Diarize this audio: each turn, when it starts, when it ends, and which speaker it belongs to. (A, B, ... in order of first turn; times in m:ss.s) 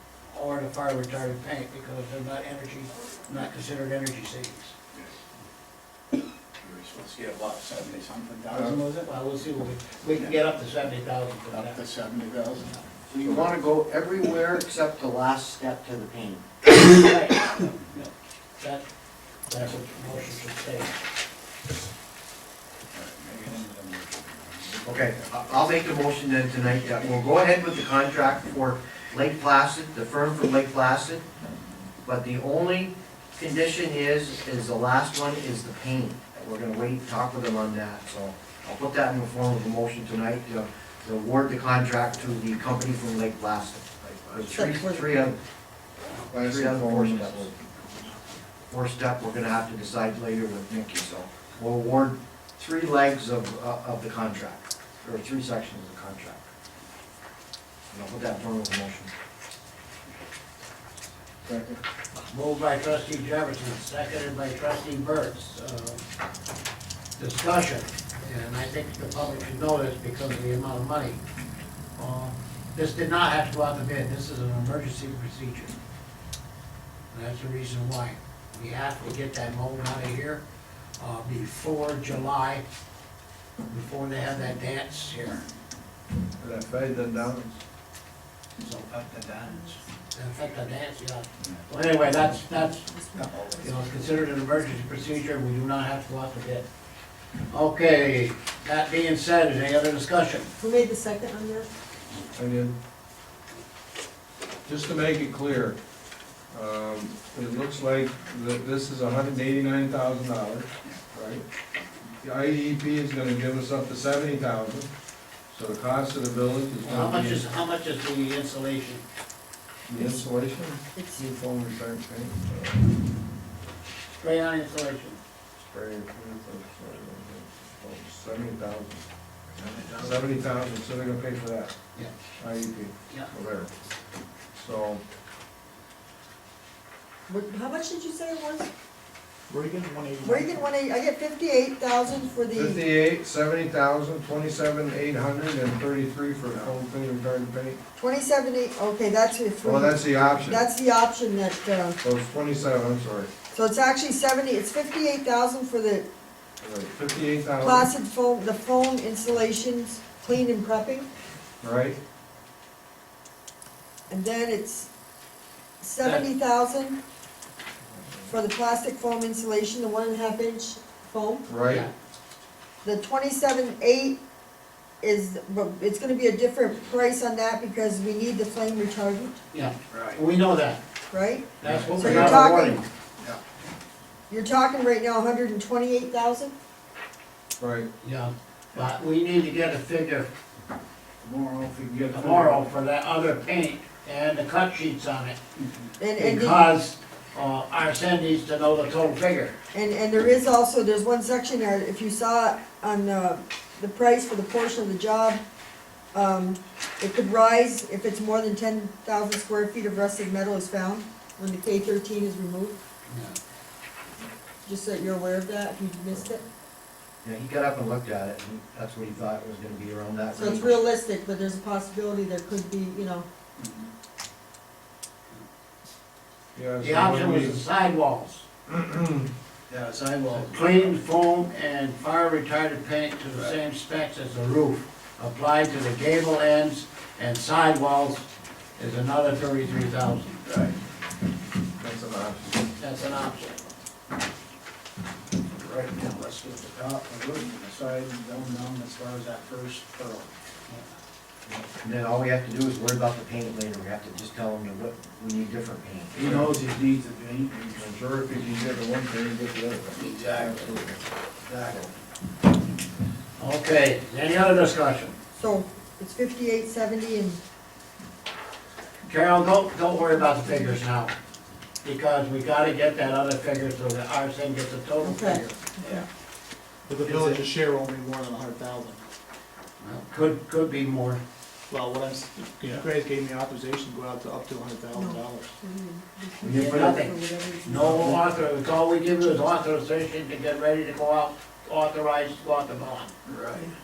0:00.3-0:04.7 A
0:06.6-0:09.1 B
0:06.9-0:09.1 C
0:08.5-0:08.8 D
0:09.0-0:11.8 A
0:11.5-0:12.6 C
0:11.6-0:12.6 B
0:13.1-0:16.4 E
0:16.8-0:18.8 A
0:19.5-0:20.9 A
0:22.9-0:25.3 B
0:24.8-0:31.3 E
0:32.0-0:45.4 E
0:44.0-0:44.6 B
0:44.5-0:45.1 F
0:46.3-0:47.3 D
0:46.3-0:47.5 E
0:48.7-0:56.5 E
0:57.9-0:59.1 E
1:01.4-1:01.8 D
1:02.2-1:06.0 A
1:07.2-1:11.2 A
1:12.0-1:15.7 A
1:17.1-1:20.4 A
1:21.0-1:22.6 A
1:23.7-1:25.4 A
1:26.4-1:27.6 D
1:28.6-1:28.9 A
1:28.9-1:29.6 B
1:29.4-1:32.9 A
1:32.8-1:33.8 F
1:33.2-1:33.6 B
1:33.6-1:36.7 A
1:37.5-1:40.5 A
1:40.6-1:41.7 F
1:42.4-1:42.8 D
1:44.7-1:45.8 D
1:46.5-1:51.4 D
1:52.2-1:54.9 D
1:55.5-1:57.4 D
1:56.8-1:59.0 A
1:59.9-2:03.0 D
2:01.0-2:01.3 F
2:04.1-2:05.2 A
2:05.6-2:09.1 D
2:09.8-2:10.1 B
2:09.9-2:11.7 D
2:12.4-2:13.7 D
2:14.6-2:15.0 D
2:17.3-2:18.7 F
2:19.5-2:20.6 C
2:20.2-2:22.8 F
2:22.5-2:27.8 D
2:28.0-2:32.0 F
2:29.6-2:30.6 D
2:32.0-2:33.3 D
2:33.5-2:36.1 F
2:36.6-2:37.9 D
2:37.6-2:41.1 F
2:41.6-2:42.0 D
2:44.1-2:44.9 F
2:45.8-2:47.0 F
2:48.3-2:51.5 F
2:51.5-2:51.9 D
2:52.8-2:54.2 F
2:55.0-2:59.4 F
2:59.5-3:00.8 A
2:59.9-3:00.2 B
3:01.1-3:02.8 F
3:01.6-3:02.8 A
3:01.7-3:02.2 D
3:02.1-3:02.7 E
3:04.3-3:06.5 F
3:07.6-3:07.9 D
3:08.0-3:10.3 A
3:11.2-3:12.6 B
3:12.1-3:15.4 A
3:16.0-3:16.6 F
3:16.2-3:19.5 A
3:19.7-3:25.4 F
3:26.1-3:32.8 F
3:33.1-3:33.4 A
3:34.6-3:36.4 F
3:37.2-3:40.8 E
3:40.4-3:43.3 F
3:43.6-3:43.9 B
3:46.6-3:47.6 D
3:46.8-3:48.4 A
3:48.7-3:49.3 D
3:49.7-3:50.9 B
3:50.3-3:58.3 A
3:58.8-4:00.4 A
4:00.4-4:00.8 B
4:01.8-4:02.6 D
4:02.8-4:03.6 A
4:05.5-4:10.3 B
4:11.7-4:16.2 E
4:16.1-4:17.9 B
4:16.2-4:16.6 D
4:17.8-4:21.0 D
4:20.0-4:20.6 B
4:21.4-4:21.8 B
4:23.4-4:25.1 A
4:25.4-4:27.4 F
4:29.0-4:31.1 A
4:31.8-4:35.6 A
4:35.0-4:36.0 F
4:36.9-4:39.0 C
4:37.0-4:37.4 B
4:39.8-4:41.2 A
4:41.7-4:45.5 C
4:44.9-4:48.2 F
4:46.4-4:53.1 A
4:53.3-4:53.7 B